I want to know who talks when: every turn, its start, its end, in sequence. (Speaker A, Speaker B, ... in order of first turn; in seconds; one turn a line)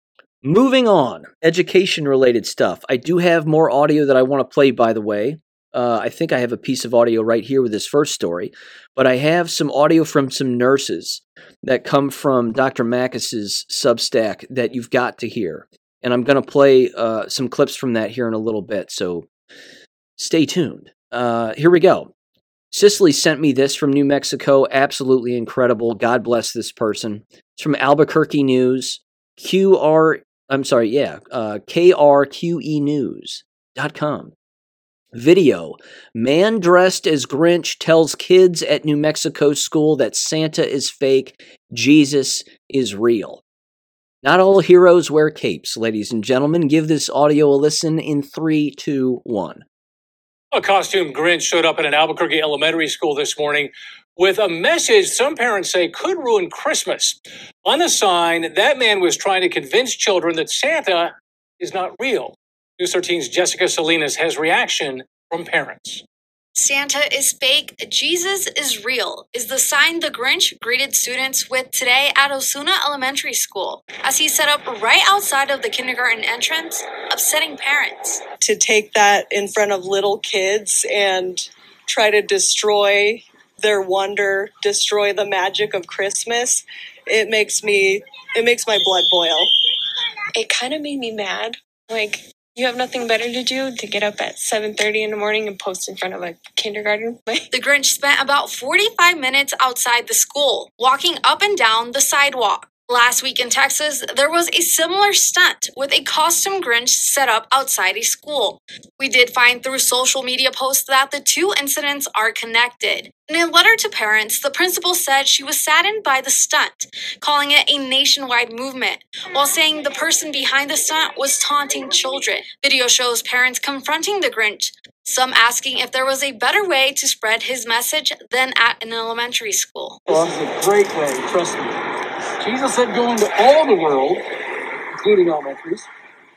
Speaker A: 0.4-19.3
Speaker A: 20.2-22.1
Speaker A: 22.7-34.3
Speaker A: 35.1-43.4
Speaker A: 44.2-49.6
Speaker B: 50.5-66.0
Speaker C: 66.5-78.2
Speaker D: 78.4-89.5
Speaker E: 90.3-97.5
Speaker C: 97.5-130.0
Speaker F: 130.1-131.7
Speaker F: 132.4-134.2
Speaker F: 134.9-135.9